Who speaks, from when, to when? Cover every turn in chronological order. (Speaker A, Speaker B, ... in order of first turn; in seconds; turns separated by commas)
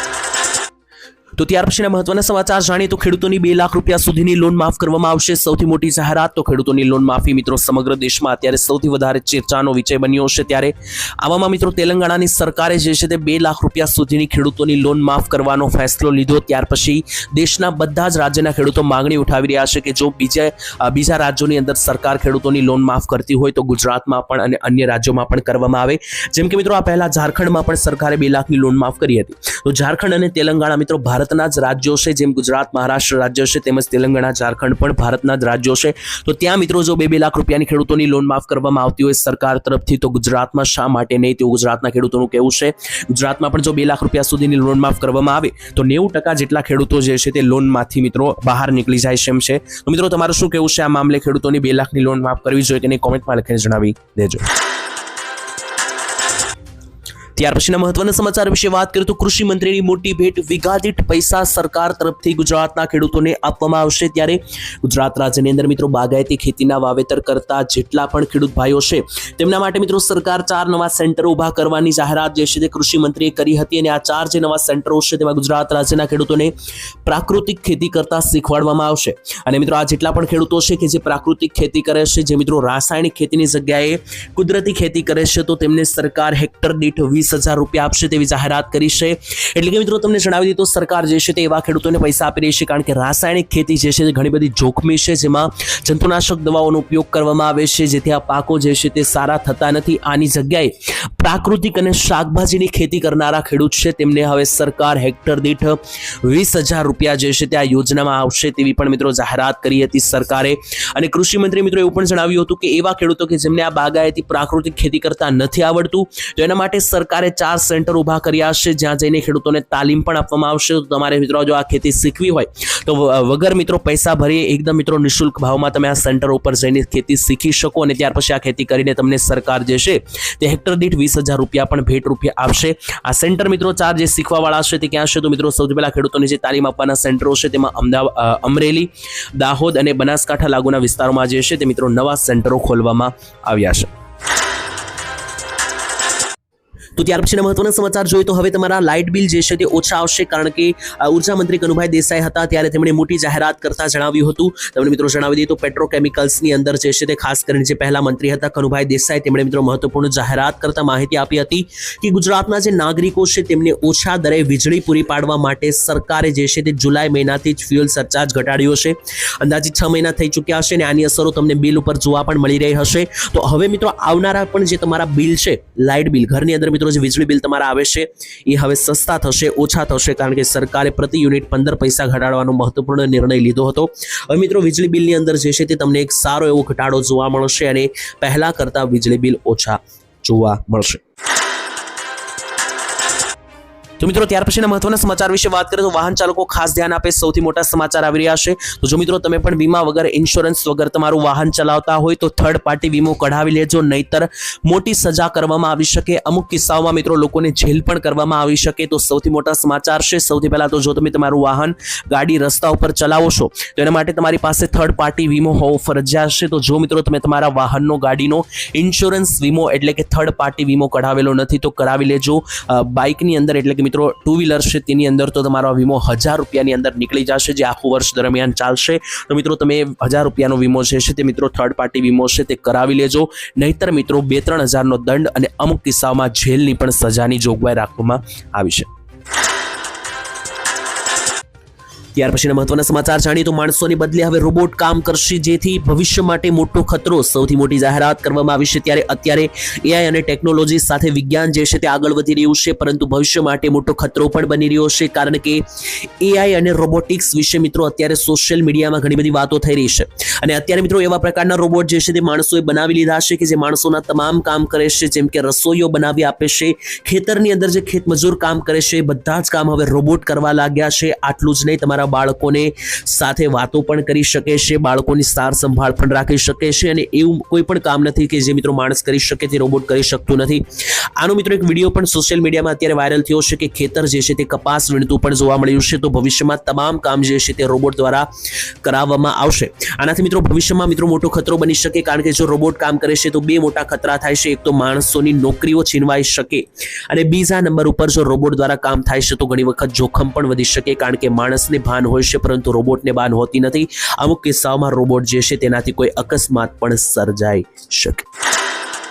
Speaker A: 1.4-54.5, Speaker A: 57.4-76.5, Speaker A: 77.0-143.9, Speaker A: 147.0-191.0, Speaker A: 194.0-238.9, Speaker A: 242.1-288.3, Speaker A: 288.8-308.2